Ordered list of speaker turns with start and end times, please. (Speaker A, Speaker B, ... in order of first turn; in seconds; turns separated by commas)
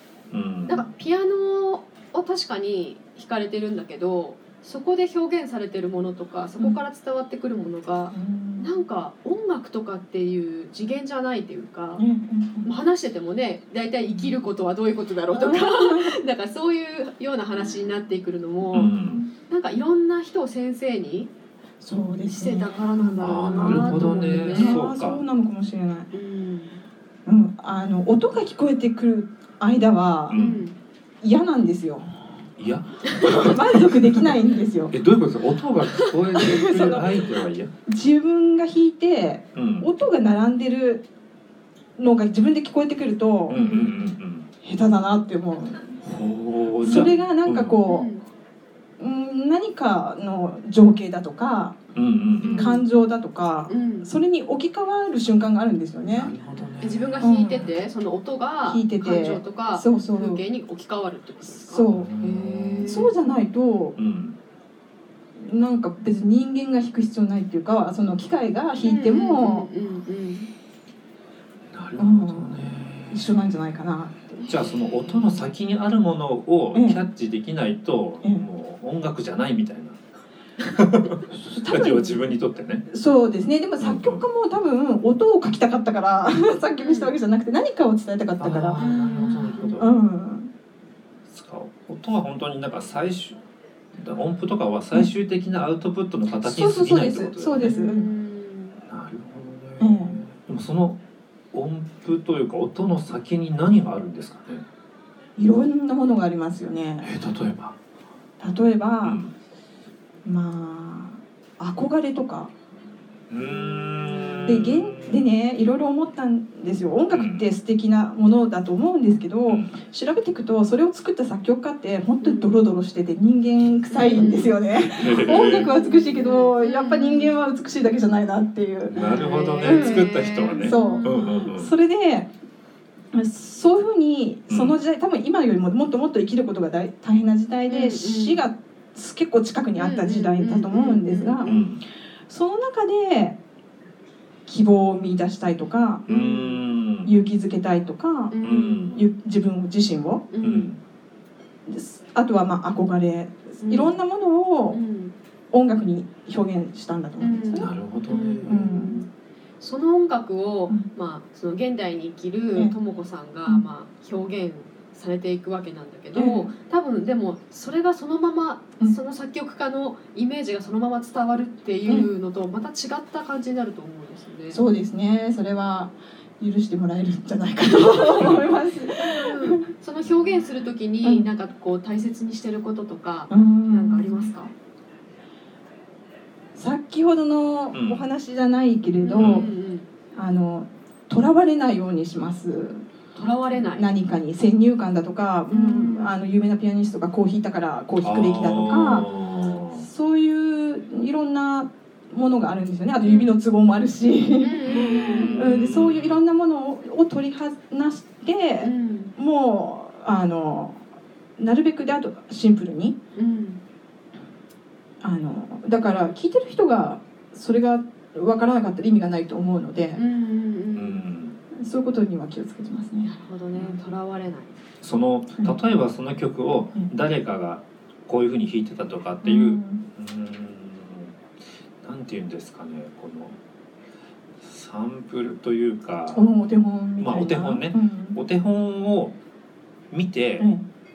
Speaker A: 0.3-0.9, Speaker B: 0.7-12.0, Speaker C: 8.1-8.7, Speaker C: 12.0-12.7, Speaker B: 12.7-18.9, Speaker C: 14.1-14.4, Speaker C: 15.3-16.2, Speaker A: 18.7-19.2, Speaker C: 19.0-19.3, Speaker B: 19.5-21.3, Speaker C: 21.8-26.1, Speaker B: 22.3-24.8, Speaker A: 23.2-25.2, Speaker B: 26.1-26.8, Speaker C: 27.3-30.4, Speaker A: 30.3-30.6, Speaker B: 30.4-30.8, Speaker C: 31.2-32.1, Speaker A: 32.6-34.3, Speaker C: 33.1-34.9, Speaker A: 34.9-37.7, Speaker C: 36.4-37.2, Speaker C: 37.9-41.1, Speaker A: 39.5-39.9, Speaker C: 42.0-43.6, Speaker A: 43.5-44.5, Speaker B: 43.5-43.9, Speaker C: 44.6-46.0, Speaker A: 46.0-47.8, Speaker C: 46.8-48.1, Speaker B: 47.9-48.2, Speaker C: 49.0-51.8, Speaker A: 51.9-52.7, Speaker B: 52.4-52.9, Speaker C: 52.5-56.3, Speaker B: 53.7-54.1, Speaker A: 56.1-57.4, Speaker B: 56.8-63.1, Speaker C: 57.2-57.7, Speaker C: 58.7-60.4, Speaker C: 61.5-62.1, Speaker A: 61.9-63.1, Speaker C: 62.9-64.0, Speaker A: 64.0-64.4, Speaker C: 65.4-69.7, Speaker B: 68.8-70.5, Speaker A: 71.7-73.4, Speaker C: 72.0-74.5, Speaker A: 74.5-80.0, Speaker B: 74.8-75.4, Speaker C: 76.7-77.0, Speaker A: 80.6-82.8, Speaker C: 81.3-82.3, Speaker C: 82.9-88.8, Speaker A: 83.8-84.2, Speaker B: 86.8-87.1, Speaker A: 88.4-90.0, Speaker B: 88.8-89.8, Speaker C: 89.8-90.5, Speaker A: 91.3-93.4, Speaker A: 93.9-97.8, Speaker C: 96.4-98.1, Speaker B: 97.6-98.8, Speaker A: 98.9-101.0, Speaker C: 99.8-100.2, Speaker A: 101.5-104.7, Speaker C: 105.4-107.1, Speaker A: 107.0-107.8, Speaker C: 108.4-109.2, Speaker A: 109.0-109.3, Speaker C: 110.2-112.5, Speaker A: 113.3-115.3, Speaker C: 114.5-129.1, Speaker A: 117.1-117.5, Speaker A: 119.5-119.8, Speaker B: 122.2-122.6, Speaker B: 123.9-127.3, Speaker A: 124.9-125.7, Speaker A: 128.9-131.7, Speaker B: 129.0-131.5, Speaker C: 129.6-132.3, Speaker C: 133.1-141.7, Speaker A: 134.5-134.8, Speaker B: 137.7-138.4, Speaker B: 139.8-141.5, Speaker A: 141.4-141.8, Speaker C: 142.3-143.4, Speaker C: 144.5-146.1, Speaker A: 146.1-147.2, Speaker B: 146.1-146.6, Speaker C: 147.1-148.4, Speaker B: 148.3-149.0, Speaker A: 148.4-149.0, Speaker C: 148.9-150.3, Speaker B: 150.3-150.7, Speaker A: 150.4-150.8, Speaker C: 151.7-154.8, Speaker B: 153.6-153.9, Speaker B: 154.7-155.2, Speaker C: 155.5-157.7, Speaker B: 157.2-159.1, Speaker A: 157.6-158.6, Speaker C: 158.4-159.0, Speaker B: 159.6-174.6, Speaker C: 166.2-166.5, Speaker C: 174.5-179.7, Speaker B: 177.9-178.4, Speaker A: 178.2-178.5, Speaker B: 179.0-184.5, Speaker A: 180.0-180.4, Speaker C: 181.0-181.3, Speaker C: 183.3-184.3, Speaker C: 186.6-189.5, Speaker A: 187.7-188.1, Speaker B: 189.0-189.9, Speaker A: 189.2-189.5, Speaker C: 190.1-192.8, Speaker B: 193.2-193.9, Speaker C: 193.7-199.1, Speaker B: 195.5-196.2, Speaker A: 198.0-199.9, Speaker C: 199.8-210.8, Speaker B: 203.0-203.3, Speaker B: 204.4-205.7, Speaker A: 204.7-206.2, Speaker B: 208.6-209.2, Speaker C: 211.4-213.0, Speaker B: 213.2-213.6, Speaker C: 215.0-220.0, Speaker B: 220.0-221.0, Speaker A: 220.8-221.4, Speaker C: 221.6-223.8, Speaker B: 223.0-224.6, Speaker A: 224.8-231.2, Speaker C: 229.2-229.8, Speaker A: 231.8-233.4, Speaker A: 234.4-236.3, Speaker C: 236.1-238.2, Speaker A: 237.0-239.2, Speaker A: 239.9-240.5, Speaker C: 240.4-240.7